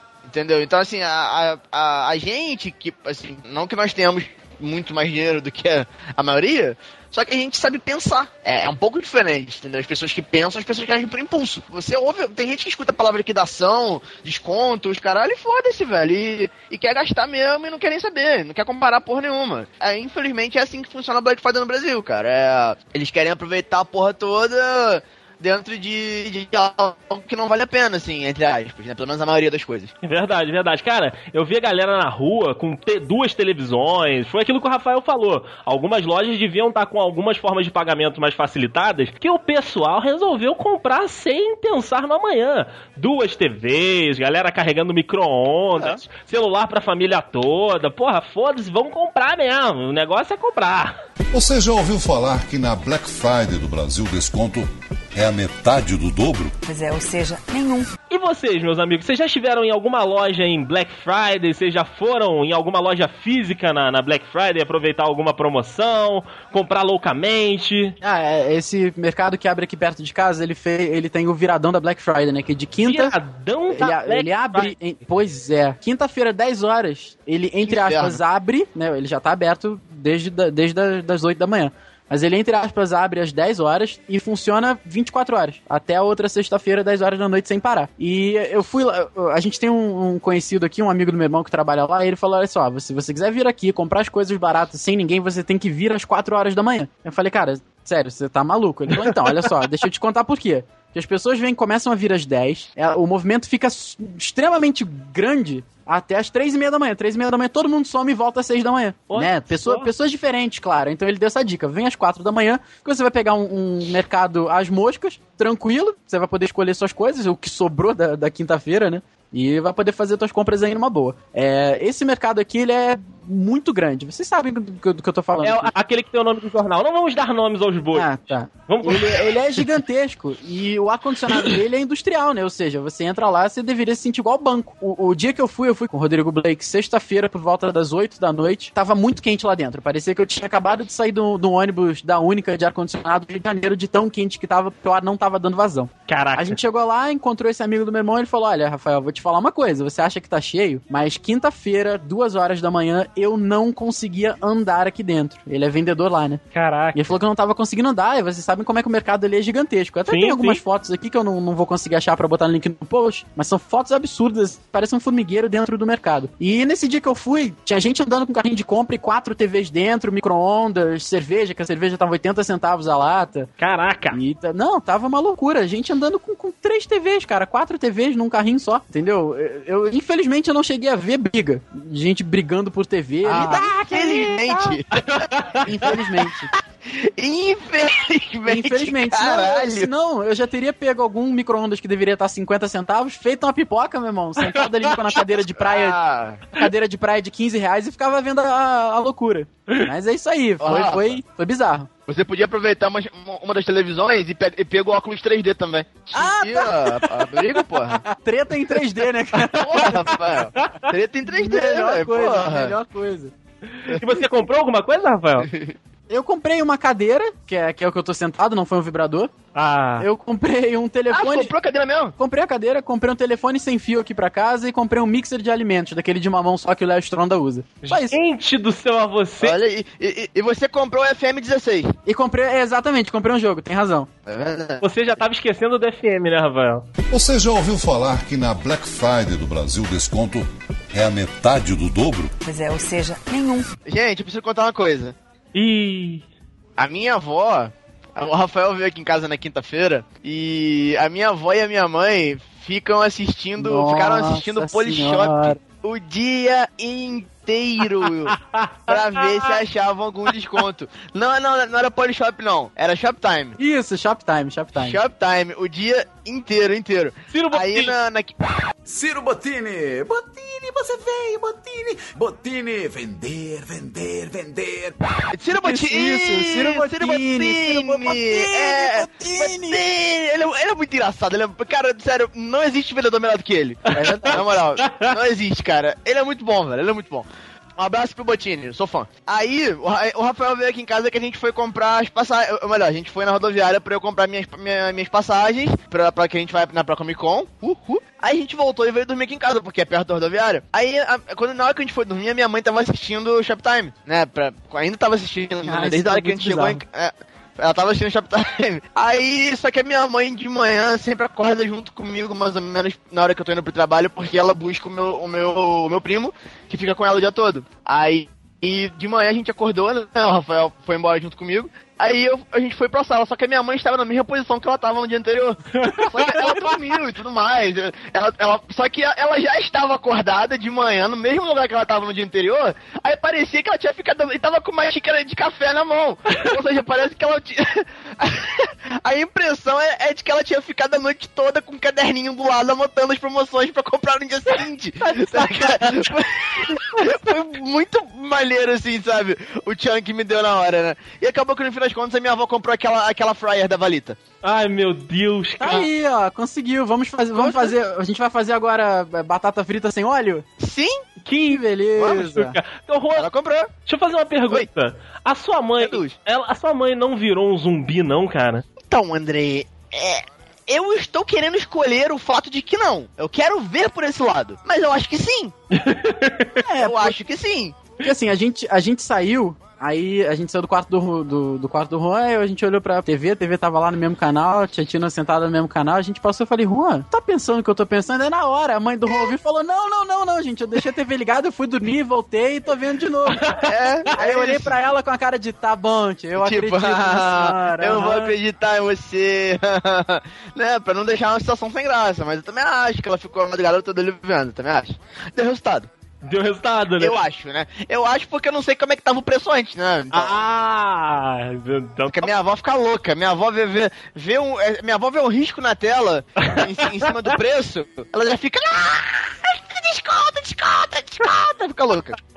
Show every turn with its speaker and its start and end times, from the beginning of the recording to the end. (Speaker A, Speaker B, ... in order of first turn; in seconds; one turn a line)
Speaker A: 0.3-29.9
Speaker B: 30.0-51.0
Speaker C: 51.3-56.5
Speaker D: 56.6-57.9
Speaker B: 58.1-68.0
Speaker E: 68.0-73.1
Speaker B: 72.8-74.7
Speaker E: 73.7-125.7
Speaker A: 77.7-78.2
Speaker B: 99.0-99.5
Speaker B: 109.1-109.9
Speaker B: 125.4-129.3
Speaker E: 128.0-156.4
Speaker B: 146.1-146.6
Speaker B: 156.5-157.1
Speaker E: 156.9-173.5
Speaker B: 160.1-160.6
Speaker B: 173.6-174.2
Speaker E: 174.1-184.8
Speaker A: 183.2-185.0
Speaker B: 184.9-185.7
Speaker E: 185.6-186.5
Speaker A: 186.9-189.9
Speaker E: 188.5-196.0
Speaker B: 194.4-195.0
Speaker A: 195.6-196.4
Speaker E: 196.5-201.9
Speaker A: 200.6-201.2
Speaker A: 202.1-208.0
Speaker E: 206.1-210.1
Speaker A: 209.6-212.7
Speaker E: 211.3-213.3
Speaker B: 213.8-215.5
Speaker E: 216.1-219.3
Speaker B: 219.6-220.1
Speaker E: 220.0-221.5
Speaker A: 221.1-222.1
Speaker E: 222.2-228.2
Speaker B: 227.8-229.6
Speaker A: 229.4-231.9
Speaker E: 232.1-234.1
Speaker A: 234.3-234.8
Speaker B: 234.8-236.9
Speaker C: 237.1-242.3
Speaker D: 242.4-243.7
Speaker A: 243.9-245.2
Speaker B: 245.6-246.2
Speaker A: 246.8-258.4
Speaker E: 253.6-255.6
Speaker B: 258.3-259.6
Speaker A: 258.9-263.6
Speaker E: 263.6-265.0
Speaker A: 264.8-268.4
Speaker B: 267.3-267.9
Speaker F: 268.9-275.0
Speaker A: 275.3-354.2
Speaker E: 275.6-279.8
Speaker B: 284.0-285.1
Speaker E: 305.6-306.8
Speaker B: 325.8-326.7
Speaker B: 345.0-346.1
Speaker B: 354.4-355.9
Speaker E: 355.6-360.5
Speaker A: 357.4-357.7
Speaker A: 360.6-361.0
Speaker B: 361.2-363.3
Speaker E: 361.5-362.6
Speaker A: 363.2-363.7
Speaker B: 363.9-368.6
Speaker A: 365.8-366.1
Speaker A: 368.9-375.5
Speaker B: 375.7-376.6
Speaker E: 376.6-377.2
Speaker A: 376.8-377.8
Speaker E: 378.0-393.6
Speaker A: 393.7-394.8
Speaker E: 394.1-398.4
Speaker A: 396.4-405.9
Speaker B: 406.2-407.2
Speaker A: 407.0-410.4
Speaker B: 410.1-412.3
Speaker A: 412.1-422.2